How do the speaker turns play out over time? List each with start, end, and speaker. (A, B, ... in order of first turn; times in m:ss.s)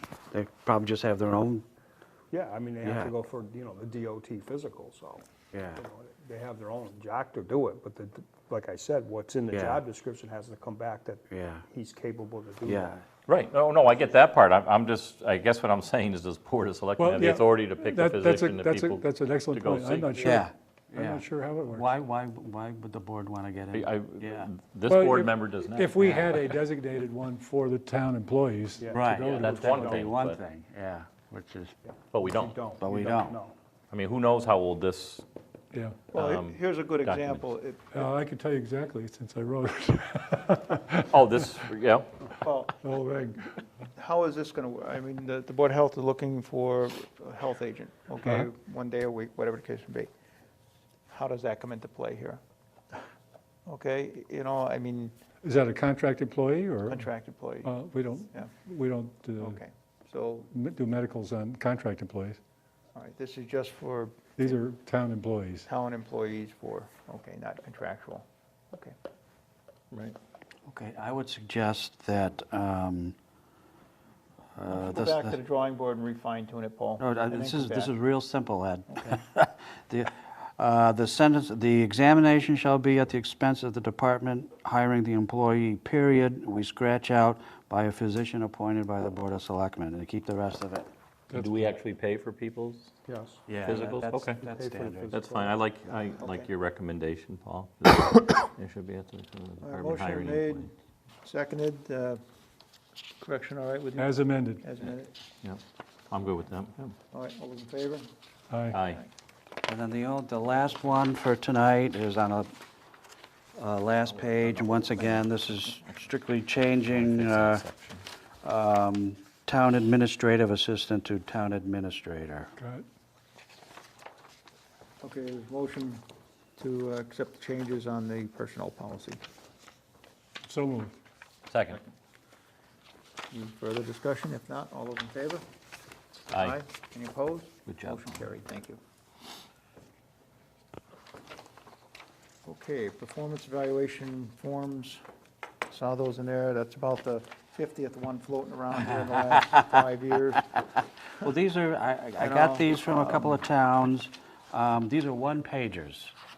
0:00.3-0:01.7 A
0:02.3-0:13.0 B
0:02.8-0:03.1 A
0:05.5-0:05.8 A
0:09.5-0:09.8 A
0:11.3-0:11.6 A
0:12.6-0:13.0 A
0:13.3-0:20.3 C
0:17.0-0:21.9 D
0:20.2-0:24.5 A
0:23.7-0:26.5 C
0:24.9-0:29.9 D
0:26.0-0:26.3 A
0:28.8-0:30.1 B
0:28.9-0:31.8 A
0:29.2-0:30.4 C
0:31.9-0:33.5 B
0:32.1-0:32.6 C
0:32.8-0:33.4 A
0:33.9-0:35.2 C
0:35.7-0:36.0 D
0:36.1-0:38.1 E
0:36.1-0:37.4 C
0:37.9-0:41.2 D
0:41.1-0:42.1 C
0:42.4-0:42.7 E
0:42.7-0:43.6 D
0:43.9-0:50.1 E
0:51.1-0:52.4 E
0:53.7-0:55.1 E
0:55.4-0:57.1 D
0:56.9-0:57.7 E
0:57.6-0:59.6 D
0:59.4-1:00.5 E
1:00.5-1:02.4 D
1:02.9-1:04.6 E
1:04.4-1:05.7 D
1:05.7-1:08.9 E
1:09.9-1:10.2 C
1:10.7-1:13.1 A
1:14.6-1:15.4 A
1:14.7-1:17.9 E
1:17.0-1:30.9 A
1:31.3-1:32.9 C
1:33.1-1:33.4 B
1:33.5-1:35.2 A
1:33.6-1:34.4 C
1:34.4-1:35.6 B
1:35.1-1:40.7 C
1:36.2-1:36.5 E
1:39.6-1:40.7 E
1:41.2-1:42.2 E
1:43.2-1:45.1 E
1:44.0-1:44.6 D
1:45.4-1:46.9 C
1:47.1-1:48.1 E
1:48.5-1:48.8 D
1:48.7-1:49.0 C
1:49.7-1:52.5 A
1:53.5-1:57.6 A
1:56.9-1:58.0 C
1:58.4-2:02.5 A
2:02.6-2:02.8 D
2:05.0-2:06.0 E
2:06.6-2:09.2 E
2:10.5-2:10.9 D
2:11.5-2:11.8 C
2:13.3-2:15.4 E
2:16.3-2:16.6 C
2:16.4-2:18.8 E
2:17.7-2:18.1 C
2:22.4-2:25.0 E
2:25.7-2:30.6 E
2:31.2-2:36.1 A
2:32.2-2:33.3 E